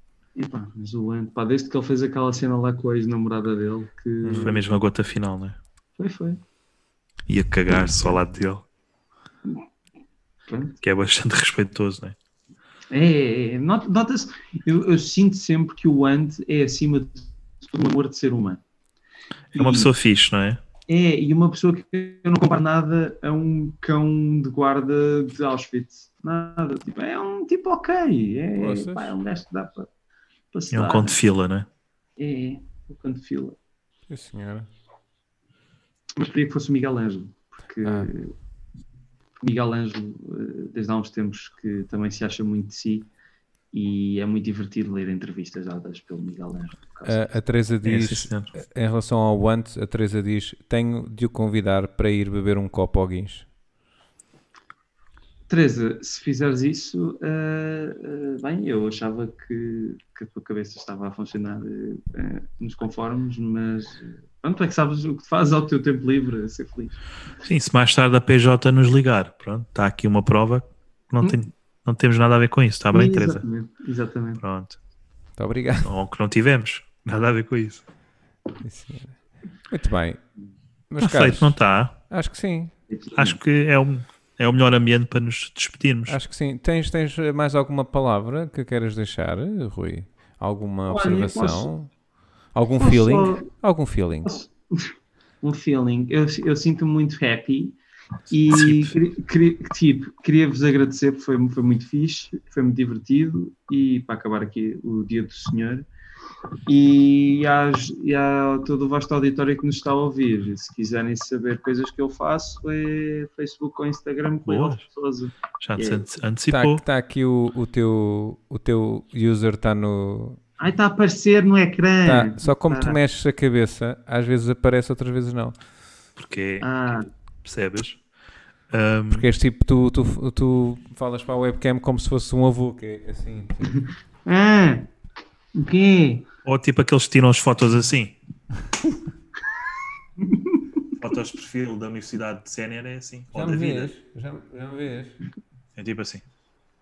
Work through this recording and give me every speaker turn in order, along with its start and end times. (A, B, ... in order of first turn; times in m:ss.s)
0:00.4-0:04.6 A
0:04.2-0:04.5 B
0:04.4-0:05.6 C
0:06.0-0:06.4 A
0:07.3-0:08.6 C
0:10.5-0:10.8 A
0:10.8-0:12.2 C
0:12.9-0:18.6 A
0:19.6-0:19.9 A
0:19.6-0:20.6 C
0:20.9-0:29.9 A
0:28.6-0:29.1 B
0:30.5-0:31.2 A
0:30.7-0:31.7 C
0:32.2-0:33.6 A
0:34.1-0:34.7 B
0:36.2-0:38.3 A
0:39.4-0:43.1 A
0:43.7-0:47.3 A
0:47.1-0:53.5 B
0:47.8-0:48.5 C
0:55.5-1:07.0 A
1:07.4-1:13.4 C
1:12.9-1:14.4 A
1:14.4-1:14.8 C
1:15.4-1:15.9 B
1:15.8-1:17.8 C
1:18.6-1:20.2 B
1:20.9-1:21.6 B
1:21.0-1:21.9 C
1:22.1-1:22.7 B
1:22.9-1:23.4 A
1:23.2-1:26.2 C
1:26.1-1:31.9 B
1:30.9-1:31.7 A
1:32.5-1:34.3 B
1:32.8-1:33.5 A
1:34.2-1:37.8 A
1:38.3-1:45.9 A
1:38.5-1:39.0 C
1:46.7-1:56.1 A
1:54.4-1:54.8 C
1:55.6-1:56.8 C
1:56.5-2:00.4 B
2:00.6-2:03.0 A
2:02.0-2:05.6 B
2:06.2-2:06.7 C
2:06.6-2:07.1 A
2:07.4-2:08.0 C
2:08.7-2:09.2 C
2:09.1-2:13.7 B
2:14.3-2:14.9 A
2:15.6-2:16.3 A
2:16.4-2:18.2 C
2:20.3-2:20.8 A
2:21.0-2:23.9 C
2:23.3-2:25.2 B
2:25.8-2:26.2 C